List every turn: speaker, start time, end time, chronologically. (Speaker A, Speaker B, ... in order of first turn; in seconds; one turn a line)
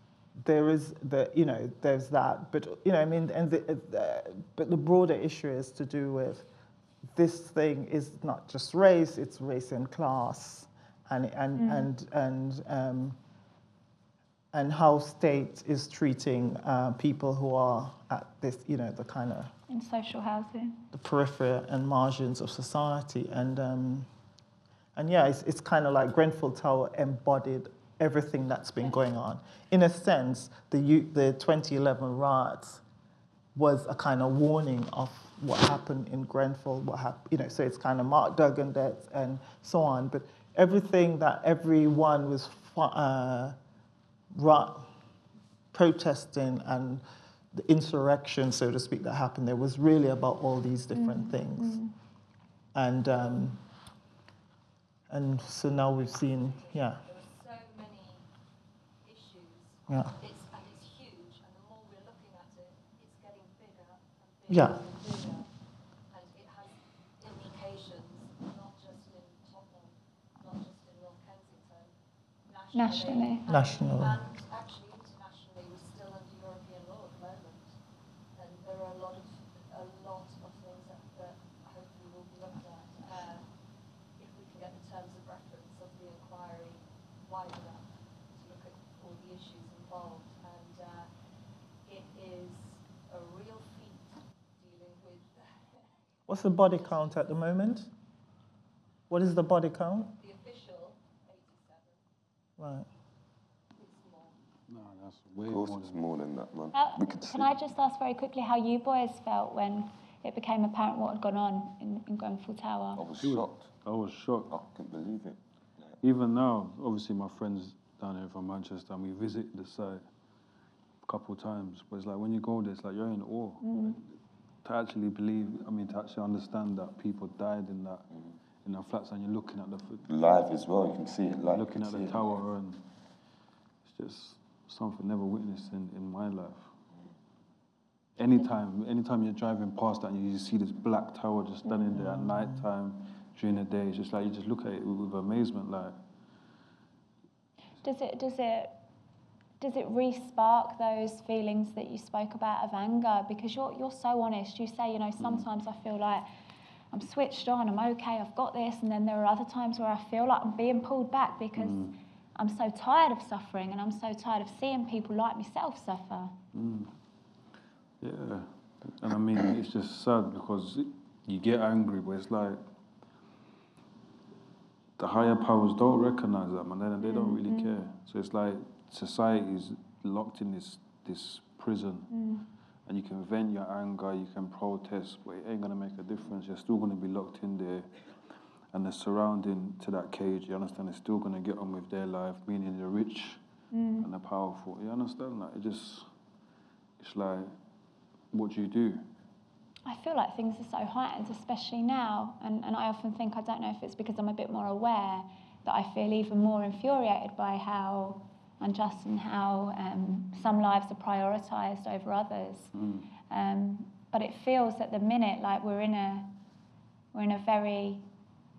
Speaker A: 0.4-6.5
Speaker A: 7.1-13.2
Speaker B: 11.6-11.9
Speaker A: 14.5-19.5
Speaker B: 19.7-20.8
Speaker A: 20.9-24.1
Speaker A: 25.0-32.8
Speaker A: 33.5-43.6
Speaker A: 44.3-44.9
Speaker A: 45.7-51.8
Speaker B: 50.9-52.0
Speaker A: 52.8-53.6
Speaker A: 55.1-57.0
Speaker C: 56.5-58.2
Speaker C: 59.0-65.5
Speaker A: 59.9-60.1
Speaker A: 64.5-64.8
Speaker C: 66.1-69.9
Speaker C: 70.4-71.9
Speaker C: 72.5-77.6
Speaker B: 72.7-73.5
Speaker A: 73.5-74.2
Speaker C: 78.4-83.4
Speaker C: 84.2-87.8
Speaker C: 88.3-91.1
Speaker C: 91.9-95.5
Speaker A: 96.3-97.9
Speaker A: 99.1-100.2
Speaker C: 100.2-102.0
Speaker A: 102.6-102.9
Speaker C: 103.8-104.3
Speaker D: 104.7-106.0
Speaker E: 105.5-107.5
Speaker B: 106.7-113.0
Speaker E: 113.0-113.6
Speaker D: 113.2-114.5
Speaker E: 114.5-115.9
Speaker D: 116.0-120.0
Speaker D: 121.0-128.1
Speaker B: 123.6-124.0
Speaker D: 128.7-130.1
Speaker E: 130.1-132.3
Speaker D: 131.5-132.8
Speaker D: 133.9-136.7
Speaker D: 138.2-146.0
Speaker A: 141.9-142.7
Speaker B: 147.8-148.8
Speaker B: 149.6-156.3
Speaker D: 155.2-155.5
Speaker B: 156.9-161.8
Speaker D: 161.6-161.9
Speaker B: 162.4-166.3
Speaker D: 166.5-166.9
Speaker D: 168.0-172.6
Speaker D: 175.0-182.1
Speaker B: 177.0-177.7
Speaker B: 182.1-182.5
Speaker D: 182.9-187.9
Speaker D: 188.7-193.4
Speaker B: 193.7-194.1
Speaker D: 194.0-196.1
Speaker D: 197.0-197.6
Speaker D: 198.3-199.1
Speaker B: 199.8-212.7
Speaker D: 212.7-213.1
Speaker B: 213.3-216.4
Speaker B: 217.1-218.1